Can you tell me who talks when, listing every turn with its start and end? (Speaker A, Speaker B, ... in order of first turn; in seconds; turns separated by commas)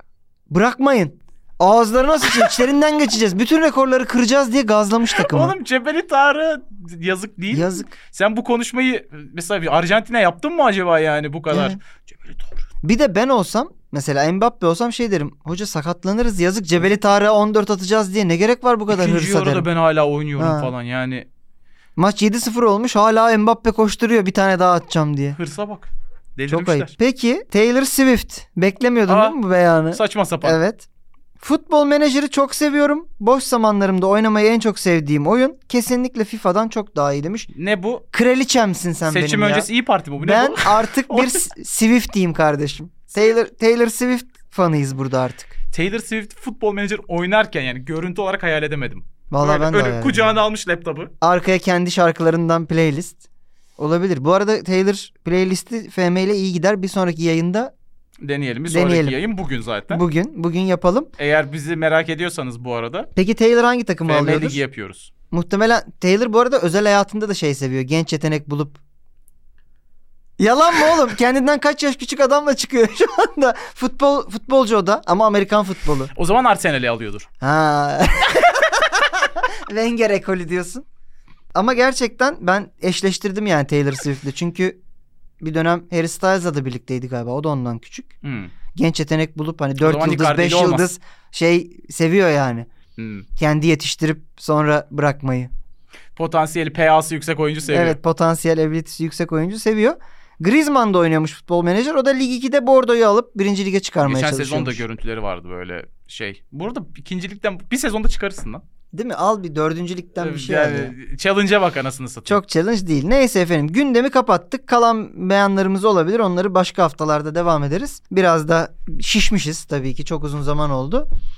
Speaker A: 0.5-5.5, Speaker B: 5.2-12.7, Speaker A: 7.5-7.9, Speaker A: 11.5-11.8, Speaker A: 12.8-19.7, Speaker B: 18.9-21.2, Speaker A: 20.4-20.7, Speaker A: 21.9-25.4, Speaker B: 25.4-26.9, Speaker A: 26.5-30.9, Speaker B: 29.1-29.4, Speaker B: 29.9-30.6, Speaker A: 31.4-37.5, Speaker B: 37.5-38.0, Speaker A: 38.1-45.5, Speaker B: 39.1-41.5, Speaker B: 45.7-51.1, Speaker A: 49.3-50.4, Speaker A: 51.2-53.2, Speaker A: 53.8-57.7, Speaker B: 58.2-60.0, Speaker A: 58.7-59.2, Speaker A: 59.9-61.1, Speaker B: 61.2-63.1, Speaker A: 63.1-64.6, Speaker B: 64.1-65.1, Speaker A: 65.3-68.8, Speaker A: 70.4-76.1, Speaker B: 76.1-77.3, Speaker A: 77.4-80.9, Speaker A: 81.5-84.8, Speaker A: 85.4-88.1, Speaker B: 88.2-88.5, Speaker A: 88.7-92.7, Speaker B: 89.8-90.9, Speaker B: 93.0-93.3, Speaker A: 93.4-95.5, Speaker B: 96.2-98.0, Speaker A: 97.7-104.8, Speaker B: 104.0-108.6, Speaker A: 108.9-110.9, Speaker B: 110.2-112.4, Speaker A: 112.3-121.1